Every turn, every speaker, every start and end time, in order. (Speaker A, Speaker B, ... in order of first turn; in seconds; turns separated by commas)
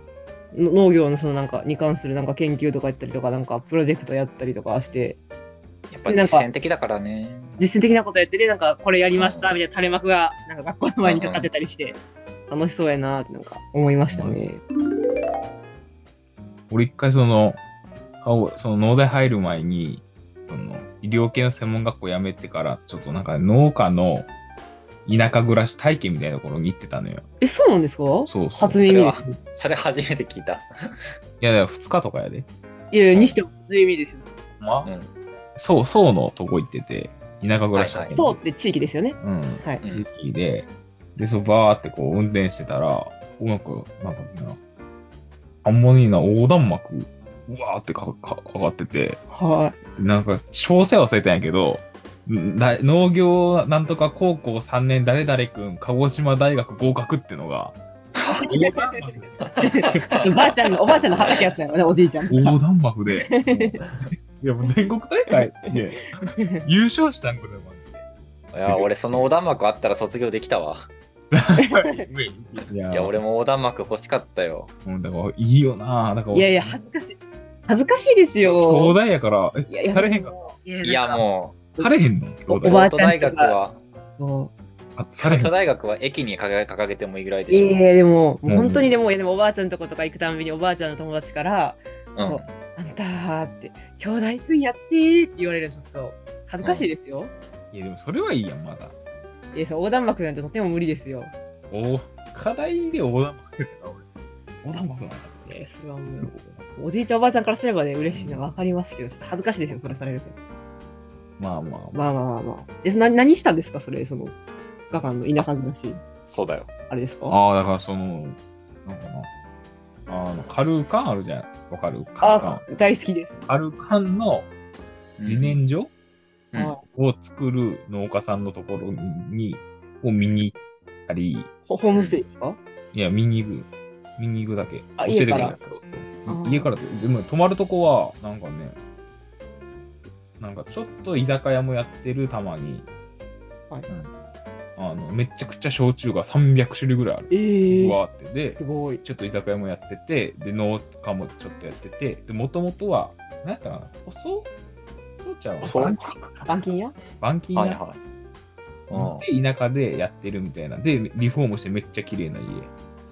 Speaker A: 0.5-5.2, Speaker B: 5.9-7.6, Speaker A: 6.0-6.5, Speaker A: 7.6-14.6, Speaker B: 9.2-9.6, Speaker B: 11.0-11.5, Speaker C: 14.1-14.4, Speaker C: 16.7-17.6, Speaker C: 18.2-24.3, Speaker C: 25.1-27.2, Speaker A: 27.4-29.4, Speaker C: 28.3-28.8, Speaker B: 28.8-31.1, Speaker C: 31.4-32.5, Speaker A: 32.9-34.3, Speaker C: 34.6-34.9, Speaker B: 34.8-35.1, Speaker C: 35.5-38.4, Speaker B: 37.7-38.2, Speaker A: 38.1-39.8, Speaker C: 39.2-44.6, Speaker C: 45.6-49.2, Speaker A: 49.3-49.8, Speaker C: 50.0-57.8, Speaker B: 58.2-58.5, Speaker A: 58.3-62.6, Speaker C: 58.4-60.1, Speaker B: 59.4-60.2, Speaker B: 60.9-61.4, Speaker C: 60.9-61.3, Speaker C: 62.3-68.0, Speaker A: 63.3-63.8, Speaker A: 66.4-66.6, Speaker B: 68.5-70.9, Speaker C: 68.7-69.3, Speaker C: 71.3-73.2, Speaker A: 71.6-72.0, Speaker B: 72.9-74.7, Speaker C: 74.8-76.8, Speaker A: 76.3-79.0, Speaker C: 78.4-80.3, Speaker A: 79.7-81.2, Speaker B: 80.8-81.6, Speaker C: 81.8-82.9, Speaker A: 82.5-83.5, Speaker B: 82.6-83.8, Speaker A: 84.2-84.5, Speaker C: 85.0-85.5, Speaker B: 85.2-87.8, Speaker A: 87.5-97.3, Speaker C: 88.5-88.9, Speaker B: 92.2-92.5, Speaker B: 96.6-96.9, Speaker C: 97.7-98.9, Speaker A: 99.5-101.3, Speaker C: 101.7-104.0, Speaker C: 104.6-105.6, Speaker A: 105.5-110.3, Speaker C: 106.1-106.6, Speaker C: 108.1-108.4, Speaker C: 109.7-110.1, Speaker C: 111.4-112.0, Speaker A: 111.9-114.3, Speaker A: 114.9-116.0, Speaker B: 116.2-116.7, Speaker A: 116.9-117.4, Speaker C: 117.3-119.3, Speaker C: 120.1-122.6, Speaker A: 122.2-123.4, Speaker C: 123.4-124.5, Speaker B: 125.2-125.6, Speaker C: 125.2-125.9, Speaker A: 126.5-126.8, Speaker C: 126.9-131.5, Speaker A: 131.7-132.6, Speaker B: 131.9-132.2, Speaker C: 132.9-138.8, Speaker A: 135.0-135.6, Speaker A: 136.2-136.7, Speaker C: 140.4-142.9, Speaker C: 144.8-154.5, Speaker A: 147.3-148.0, Speaker A: 148.5-149.0, Speaker C: 155.2-156.0, Speaker B: 155.6-156.5, Speaker A: 156.4-156.9, Speaker C: 157.2-157.8, Speaker B: 157.5-158.0, Speaker B: 158.9-159.2, Speaker C: 158.9-162.7